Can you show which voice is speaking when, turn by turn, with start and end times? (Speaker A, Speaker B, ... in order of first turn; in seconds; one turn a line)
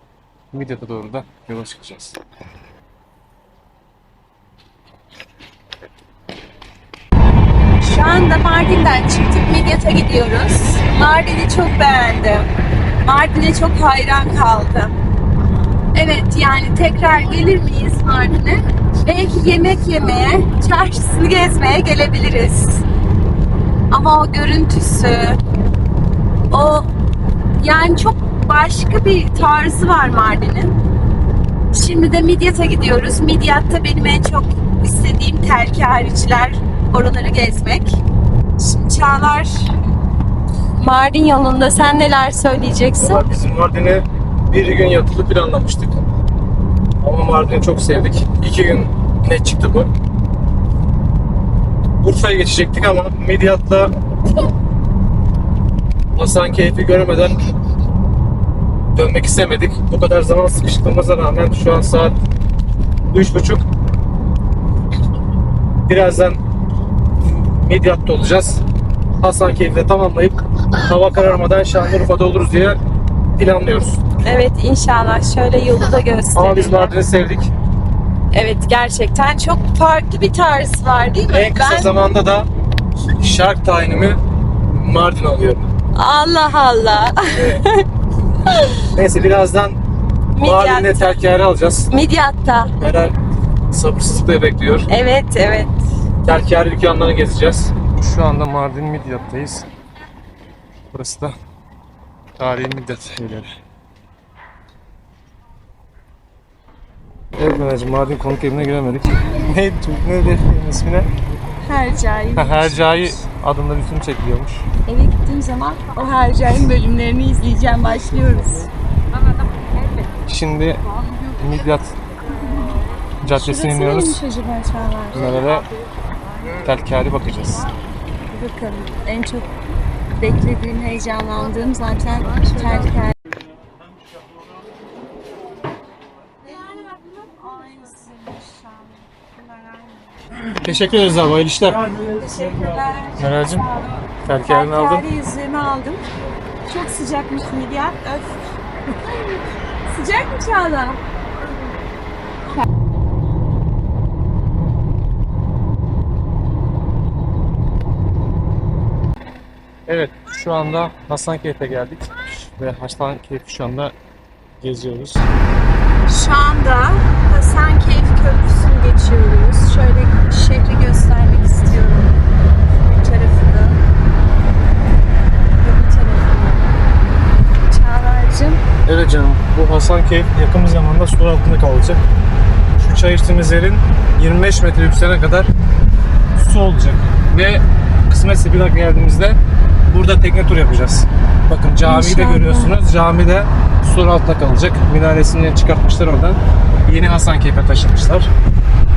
Speaker A: 0.5-2.2
Speaker B: 7.8-12.5
Speaker B: 13.0-14.9
Speaker B: 15.9-22.9
Speaker B: 23.9-25.4
Speaker B: 26.5-26.9
Speaker B: 27.6-30.8
Speaker B: 31.7-38.0
Speaker B: 38.6-39.7
Speaker B: 40.8-43.2
Speaker A: 43.0-46.0
Speaker A: 47.0-49.9
Speaker A: 52.0-53.9
Speaker A: 56.2-57.5
Speaker A: 59.0-62.2
Speaker A: 63.1-63.6
Speaker A: 65.9-66.4
Speaker A: 67.2-68.6
Speaker A: 69.2-72.8
Speaker A: 73.4-74.0
Speaker B: 74.2-76.9
Speaker A: 76.3-77.5
Speaker B: 78.3-82.0
Speaker A: 81.3-82.5
Speaker A: 83.2-84.2
Speaker A: 84.7-85.7
Speaker B: 86.0-87.8
Speaker B: 88.5-88.9
Speaker A: 88.9-89.8
Speaker B: 90.3-91.2
Speaker A: 90.4-91.9
Speaker B: 91.9-92.7
Speaker A: 92.8-93.2
Speaker A: 93.7-94.9
Speaker B: 94.9-95.8
Speaker A: 96.2-99.7
Speaker A: 100.9-101.3
Speaker A: 102.4-103.5
Speaker A: 107.4-111.1
Speaker B: 111.6-112.8
Speaker A: 112.4-114.7
Speaker B: 114.9-118.7
Speaker A: 120.3-120.8
Speaker A: 121.4-121.9
Speaker B: 122.3-125.4
Speaker A: 123.2-124.2
Speaker A: 125.1-125.7
Speaker A: 126.6-127.7
Speaker B: 128.3-129.5
Speaker B: 130.2-133.1
Speaker B: 136.4-140.2
Speaker A: 140.6-141.9
Speaker B: 142.0-146.0
Speaker A: 143.2-143.6
Speaker A: 144.2-145.1
Speaker B: 146.7-148.4
Speaker B: 149.0-149.3
Speaker B: 149.8-151.0
Speaker A: 159.9-163.9
Speaker A: 164.6-165.3
Speaker B: 166.1-172.2
Speaker B: 172.8-173.8
Speaker B: 175.6-176.7
Speaker B: 177.7-178.6
Speaker A: 178.8-182.0
Speaker A: 182.8-185.5
Speaker A: 186.4-198.3
Speaker B: 191.8-192.7